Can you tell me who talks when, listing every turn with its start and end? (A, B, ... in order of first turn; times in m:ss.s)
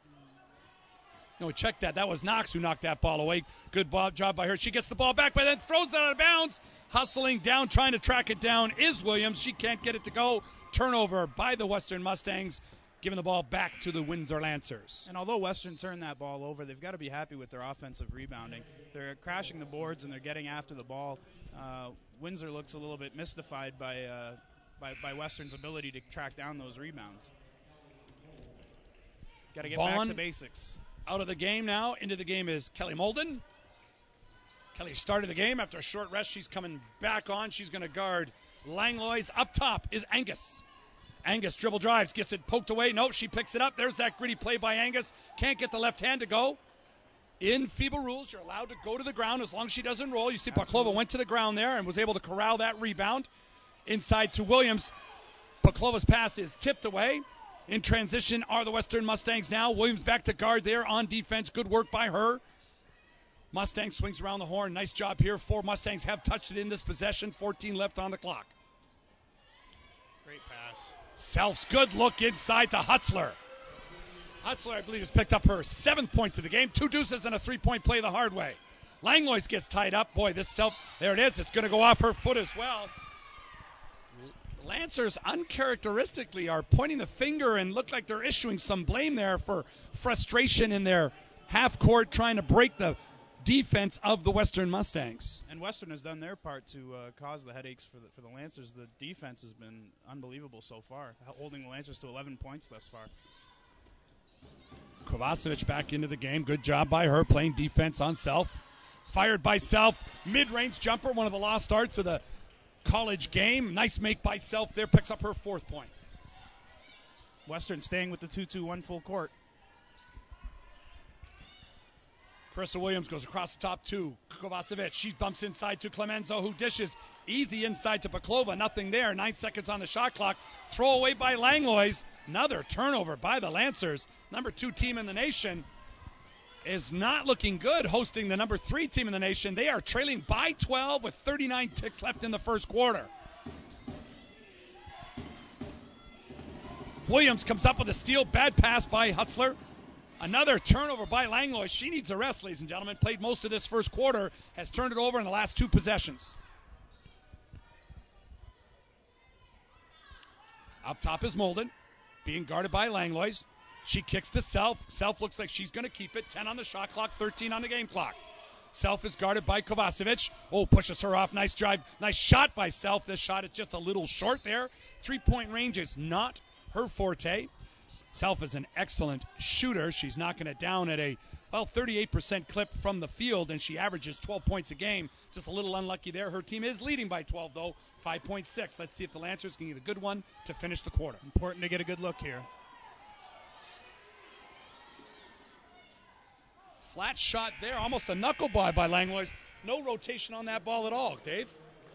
0:01.4-0:15.1 A
0:15.1-0:27.3 B
0:29.5-0:30.8 B
0:29.6-0:30.2 A
0:31.0-0:33.4 A
0:34.7-0:40.6 A
0:41.2-0:46.6 A
0:47.4-0:53.3 A
0:50.5-0:51.0 B
0:53.8-0:54.9 A
0:55.6-1:02.4 A
1:03.5-1:08.5 A
1:10.2-1:11.0 B
1:11.2-1:13.4 A
1:14.4-1:22.9 A
1:24.2-1:35.4 A
1:35.5-1:43.1 B
1:45.0-1:52.2 A
1:52.8-1:55.9 A
1:57.5-1:59.3 B
2:02.5-2:15.7 A
2:16.6-2:23.1 A
2:27.0-2:29.6 A
2:30.2-2:36.4 A
2:40.8-2:41.7 A
2:42.2-2:48.2 A
2:48.7-2:57.5 A
2:58.1-3:11.2 A
3:11.2-3:12.5 B
3:16.8-3:21.6 A